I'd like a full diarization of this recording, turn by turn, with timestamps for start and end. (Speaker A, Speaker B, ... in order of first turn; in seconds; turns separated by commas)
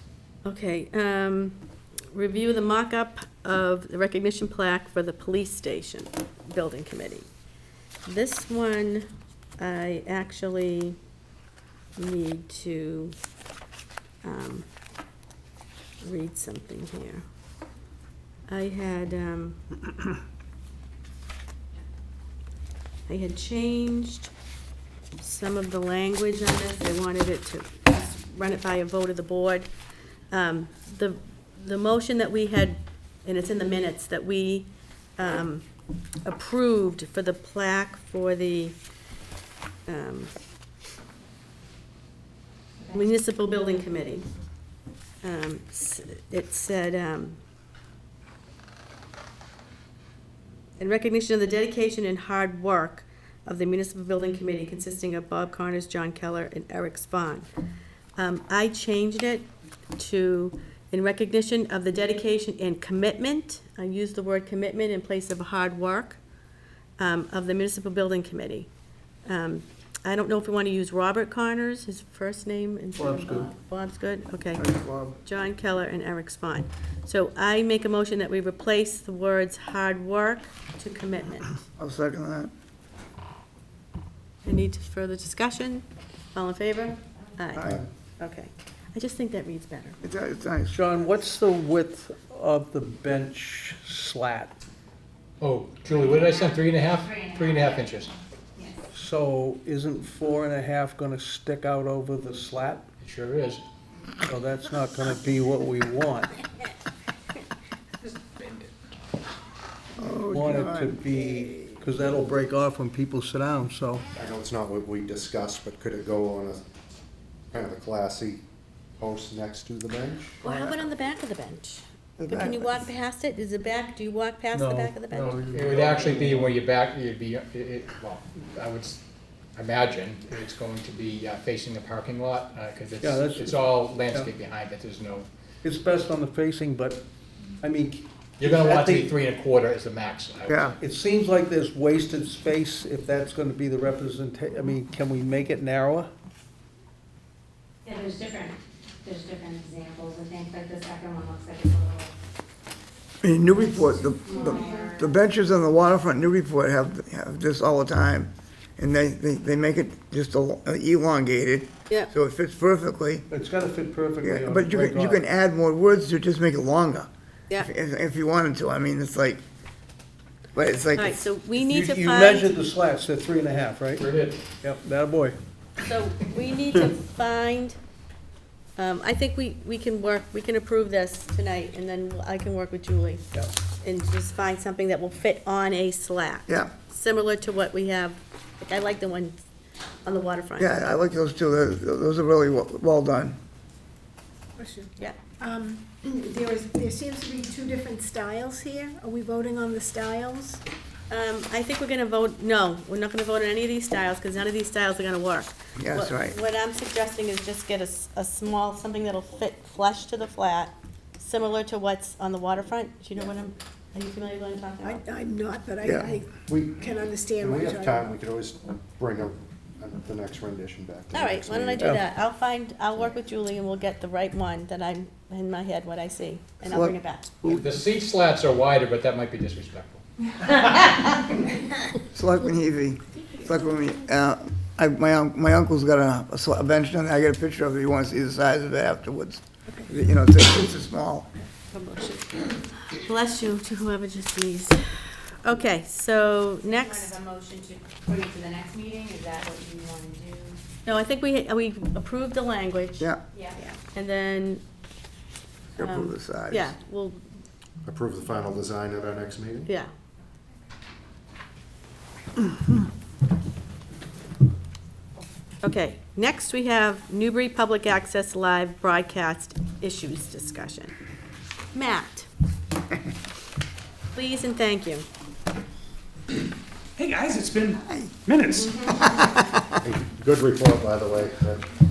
Speaker A: 0.4-7.3, Speaker A: 8.1-11.0, Speaker A: 12.0-13.1, Speaker A: 14.2-14.7, Speaker A: 16.0-17.2, Speaker A: 18.5-19.6, Speaker A: 23.1-24.3, Speaker A: 25.2-29.7, Speaker A: 30.3-35.6, Speaker A: 36.2-38.8, Speaker A: 39.9-40.3, Speaker A: 42.9-44.2, Speaker A: 45.2-47.4, Speaker A: 50.8-57.5, Speaker A: 58.2-66.2, Speaker A: 67.0-68.7, Speaker A: 69.2-74.7, Speaker B: 73.0-73.5, Speaker C: 74.5-75.2, Speaker A: 75.2-81.5, Speaker C: 81.8-82.5, Speaker A: 84.4-90.0, Speaker C: 90.0-90.8, Speaker B: 90.7-94.5, Speaker D: 95.4-98.1, Speaker E: 97.2-97.5, Speaker B: 98.9-102.9, Speaker D: 103.0-103.6, Speaker B: 104.2-106.3, Speaker C: 110.0-111.0, Speaker B: 110.3-114.1, Speaker C: 111.5-111.8, Speaker F: 114.2-116.6, Speaker F: 117.5-118.4, Speaker F: 119.0-120.3, Speaker A: 120.4-125.3, Speaker C: 120.4-120.8, Speaker C: 122.2-122.8, Speaker B: 124.5-126.5, Speaker D: 125.5-129.0, Speaker D: 129.5-135.3, Speaker B: 133.0-133.6, Speaker B: 135.6-137.1, Speaker B: 137.6-139.1, Speaker D: 138.4-140.8, Speaker C: 140.5-140.8, Speaker B: 140.8-146.1, Speaker E: 147.8-152.1, Speaker C: 153.2-163.2, Speaker E: 154.2-155.1, Speaker B: 163.3-165.2, Speaker C: 164.2-169.4, Speaker C: 170.5-171.2, Speaker A: 170.9-172.5, Speaker B: 171.5-174.1, Speaker D: 174.0-174.4, Speaker B: 174.6-175.4, Speaker A: 175.8-177.8, Speaker A: 178.8-183.2, Speaker A: 183.8-189.3, Speaker A: 190.0-191.0, Speaker C: 190.6-193.4, Speaker G: 194.6-200.6, Speaker A: 201.1-215.0, Speaker C: 205.8-206.4, Speaker G: 214.8-218.1, Speaker F: 216.5-216.8, Speaker F: 217.4-221.9, Speaker A: 221.1-227.3, Speaker B: 221.8-222.0, Speaker C: 226.6-226.9, Speaker D: 227.4-230.0, Speaker C: 232.0-241.3, Speaker A: 241.7-247.2, Speaker E: 246.6-250.6, Speaker A: 250.8-254.6, Speaker E: 253.3-253.6, Speaker C: 255.8-256.7, Speaker A: 255.8-257.2, Speaker F: 257.8-259.7, Speaker A: 265.6-270.9, Speaker A: 271.7-272.3, Speaker A: 274.1-275.1, Speaker H: 277.0-279.2, Speaker A: 278.6-278.9, Speaker F: 279.8-281.6